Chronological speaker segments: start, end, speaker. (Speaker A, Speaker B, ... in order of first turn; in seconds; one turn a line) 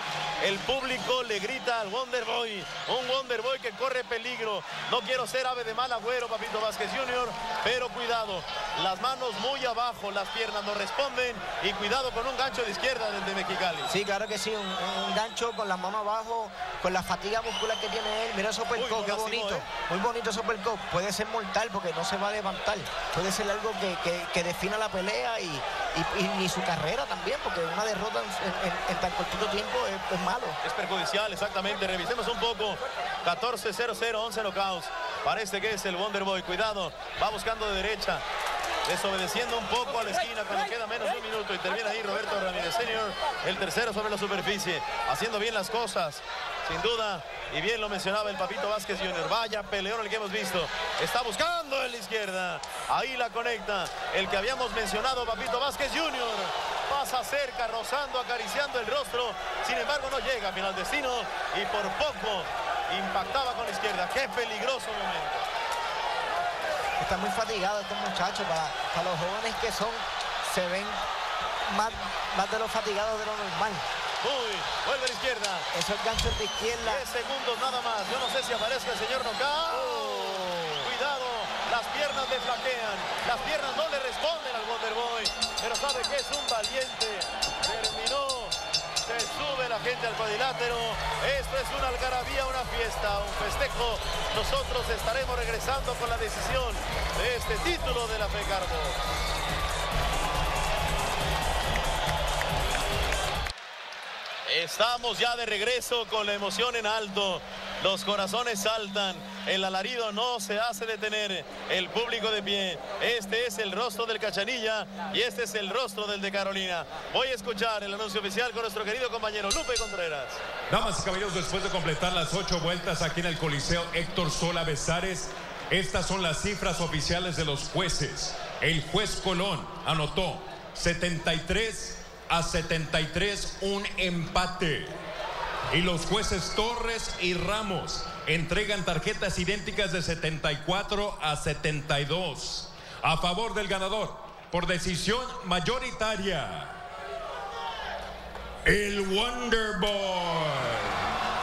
Speaker A: 0.4-13.9
Speaker B: 13.9-30.6
Speaker A: 18.8-19.7
Speaker A: 30.6-38.2
Speaker A: 38.8-65.4
Speaker B: 67.0-71.0
Speaker B: 71.7-73.8
Speaker A: 74.2-75.7
Speaker B: 75.7-77.0
Speaker A: 76.8-99.0
Speaker B: 79.7-80.9
Speaker A: 104.5-120.4
Speaker C: 120.7-135.0
Speaker C: 135.7-146.8
Speaker C: 148.6-151.0